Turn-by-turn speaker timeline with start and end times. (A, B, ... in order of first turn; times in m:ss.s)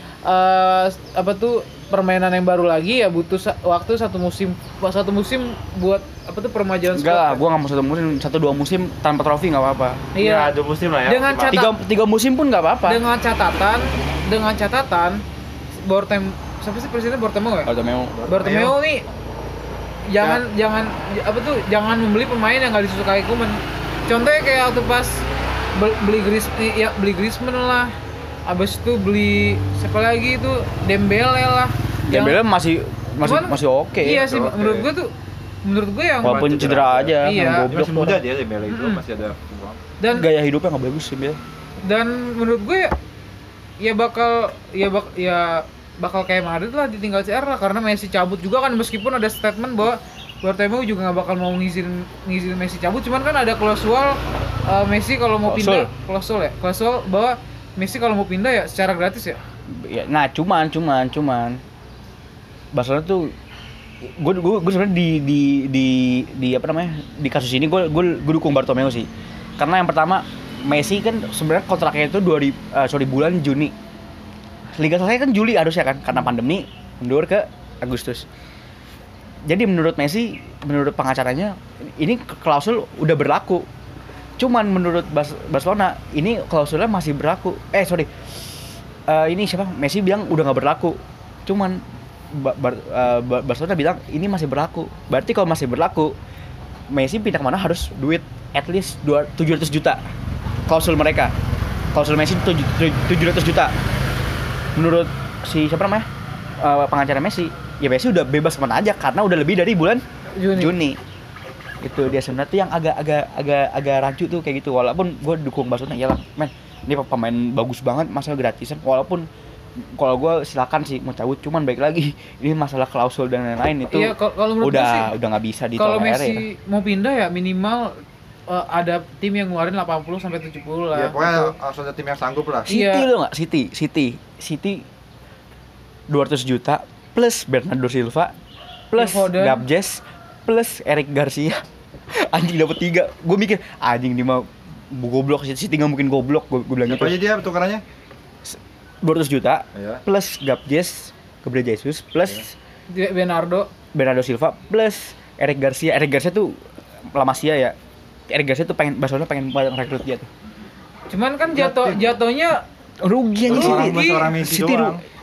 0:00.3-0:07.4 A
0:06.9-0:10.1 B
0:10.1-0:10.5 A
0:10.2-0:11.6 C
0:11.1-0:11.7 A
0:11.5-0:13.0 B
0:12.9-0:15.2 A
0:15.8-0:17.7 A
0:17.7-0:18.2 B
0:18.2-0:18.8 C
0:18.3-0:19.0 A
0:20.1-0:25.2 A
0:25.8-0:27.9 A
0:28.5-0:32.4 A
0:32.1-0:34.3 B
0:33.2-0:35.1 A
0:34.1-0:34.9 C
0:35.6-0:36.6 A
0:36.2-0:39.8 C
0:36.2-0:38.2 B
0:37.2-0:37.6 A
0:38.7-0:39.0 A
0:40.0-0:40.3 A
0:40.1-0:41.4 B
0:41.8-0:42.9 A
0:43.8-0:59.4 A
0:55.4-0:55.9 B
0:59.7-1:01.6 B
1:02.7-1:03.3 B
1:04.0-1:13.7 B
1:14.8-1:18.3 B
1:19.5-1:23.7 B
1:24.4-1:28.1 B
1:29.1-1:36.1 B
1:36.9-1:40.0 B
1:40.7-1:41.3 B
1:41.9-1:43.7 B
1:44.8-1:46.1 B
1:46.6-1:51.0 B
1:50.4-1:50.7 A
1:51.8-1:59.3 B
1:59.8-2:06.4 B
2:03.9-2:05.1 A
2:05.8-2:11.5 A
2:10.9-2:12.8 C
2:12.7-2:13.1 A
2:12.7-2:14.8 B
2:16.1-2:18.3 B
2:18.9-2:27.2 B
2:18.9-2:19.6 A
2:26.8-2:27.8 C
2:28.4-2:32.5 B
2:29.8-2:30.0 C
2:32.9-2:33.7 A
2:33.9-2:36.6 B
2:37.1-2:37.8 B
2:38.3-2:40.3 B
2:41.1-2:42.6 A
2:41.6-2:42.2 C
2:43.0-2:45.0 B
2:43.5-2:45.0 C
2:43.5-2:44.3 A